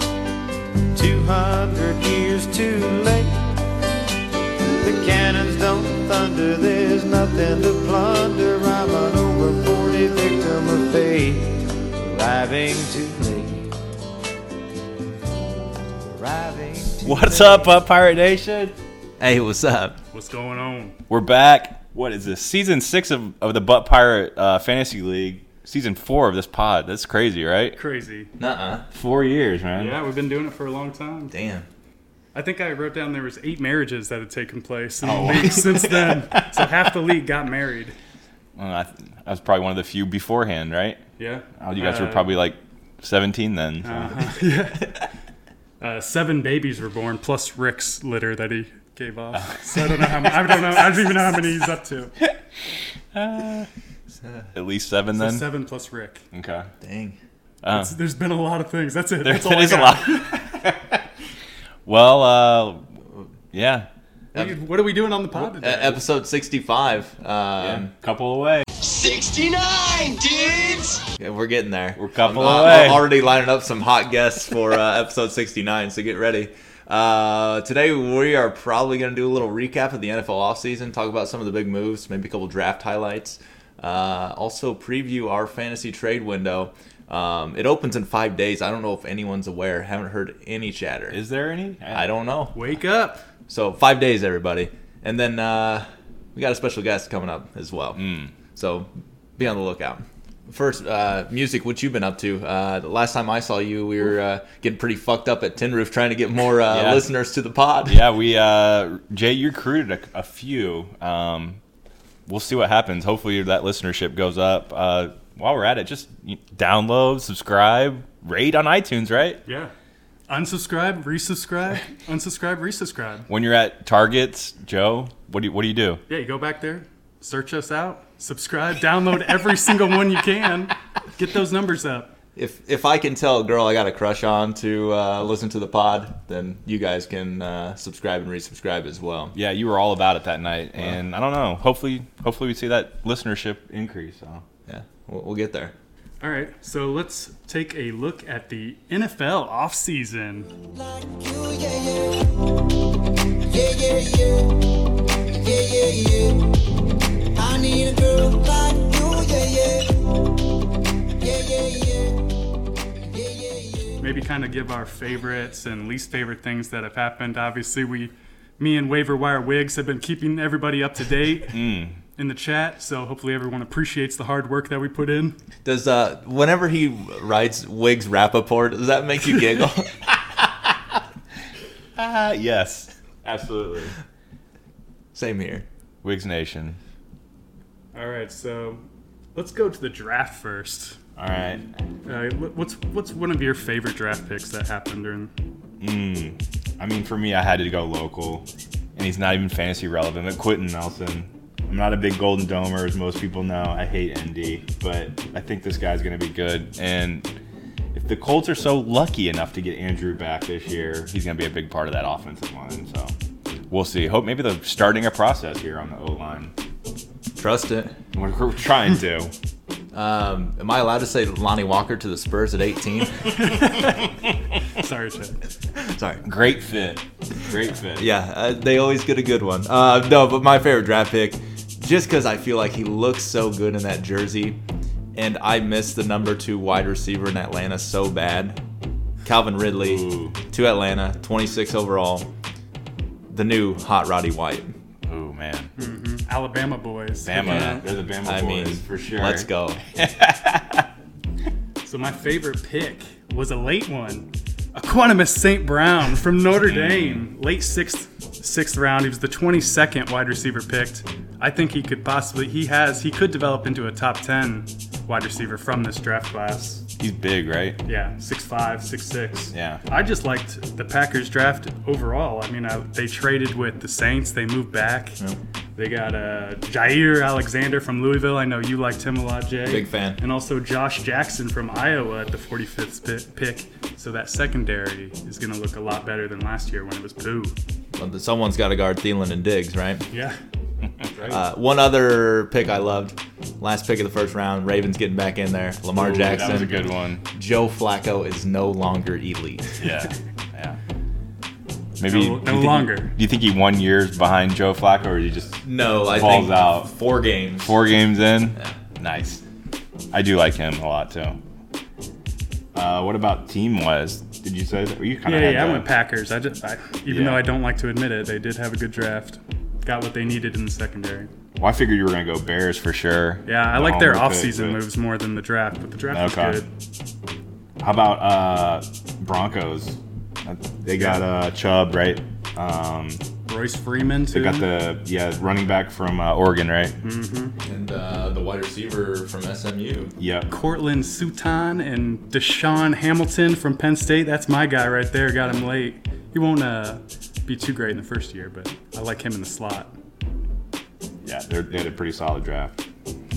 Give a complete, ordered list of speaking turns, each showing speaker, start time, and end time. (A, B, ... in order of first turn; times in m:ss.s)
0:00.9-0:03.4 A
0:04.8-0:13.7 A
0:16.0-0:17.8 A
0:17.0-0:18.8 B
0:19.2-0:20.0 C
0:20.1-0:21.0 D
0:21.1-0:27.8 B
0:27.7-0:28.3 D
0:28.4-0:28.8 C
0:28.9-0:30.0 B
0:29.7-0:31.3 D
0:31.3-0:31.7 C
0:32.3-0:38.0 D
0:35.0-0:36.7 B
0:38.6-0:41.0 B
0:41.2-0:42.3 D
0:41.6-0:44.2 B
0:43.8-0:45.0 D
0:45.8-0:52.1 D
0:49.4-0:50.7 B
0:53.1-0:53.7 B
0:54.2-0:54.5 C
0:54.5-0:55.4 B
0:55.1-0:56.2 D
0:56.3-0:56.7 B
0:56.8-0:57.2 C
0:57.6-0:58.0 B
0:57.7-1:00.3 D
0:59.2-1:01.0 B
1:01.8-1:02.9 B
1:03.5-1:03.9 B
1:04.3-1:06.0 D
1:05.3-1:07.9 C
1:07.6-1:08.7 B
1:08.9-1:09.7 A
1:09.0-1:11.0 E
1:11.2-1:31.2 C
1:12.0-1:13.1 B
1:31.1-1:32.1 B
1:31.9-1:32.6 C
1:32.5-1:33.2 D
1:33.5-1:38.0 C
1:38.0-1:38.3 B
1:38.5-1:48.0 C
1:46.7-1:47.1 B
1:47.9-1:51.6 B
1:52.3-1:59.4 B
1:59.4-1:59.7 D
2:00.3-2:03.3 D
2:03.3-2:06.0 B
2:06.1-2:12.1 D
2:12.4-2:19.3 C
2:19.3-2:24.4 B
2:24.7-2:25.7 C
2:26.2-2:30.5 D
2:30.7-2:32.3 E
2:33.5-2:34.6 E
2:35.3-2:36.4 E
2:37.4-2:39.9 E
2:41.2-2:42.2 E
2:43.0-2:43.9 E
2:44.0-2:55.4 D
2:51.5-2:52.0 B
2:55.6-2:59.9 C
3:00.1-3:00.7 B
3:02.0-3:03.9 B
3:05.1-3:05.6 C
3:06.0-3:06.8 B
3:07.9-3:08.8 D
3:09.3-3:11.0 D
3:11.2-3:11.6 B
3:12.0-3:15.3 D
3:15.8-3:27.3 B
3:27.9-3:33.1 B
3:33.7-3:36.5 B
3:37.4-3:38.0 C
3:38.1-3:39.3 B
3:39.9-3:43.4 C
3:43.3-3:44.0 D
3:44.7-3:45.4 D
3:45.7-3:46.2 C
3:46.2-3:48.1 B
3:48.0-3:54.6 C
3:55.1-3:58.6 C
3:59.2-4:02.3 C
3:59.8-4:00.4 B
4:03.3-4:04.7 C
4:05.0-4:05.7 B
4:05.8-4:07.8 D
4:07.2-4:10.9 B
4:08.2-4:09.8 C
4:11.8-4:26.8 D
4:16.6-4:17.2 B
4:27.0-4:27.8 B
4:27.8-4:35.2 D
4:29.5-4:29.8 B
4:35.8-4:47.5 D
4:39.6-4:40.2 C
4:48.0-4:50.0 C
4:50.1-4:50.4 D
4:51.0-4:51.4 B
4:51.3-4:56.8 C
4:55.9-4:57.2 B
4:56.5-4:56.7 D
4:57.3-4:59.8 C
4:59.8-5:00.8 B
5:02.0-5:06.9 B
5:02.1-5:03.1 D
5:05.6-5:07.8 C
5:07.6-5:09.4 B
5:10.1-5:11.4 B
5:12.7-5:15.9 B
5:15.2-5:21.3 D
5:17.1-5:17.4 B
5:21.6-5:24.8 B
5:23.4-5:26.7 D
5:26.1-5:26.6 B
5:27.8-5:33.2 B
5:30.9-5:31.2 D
5:33.5-5:34.6 D
5:34.3-5:36.9 B
5:37.0-5:37.5 D
5:37.6-5:40.1 C
5:40.2-5:40.5 B
5:40.5-5:49.9 D
5:51.2-5:52.8 B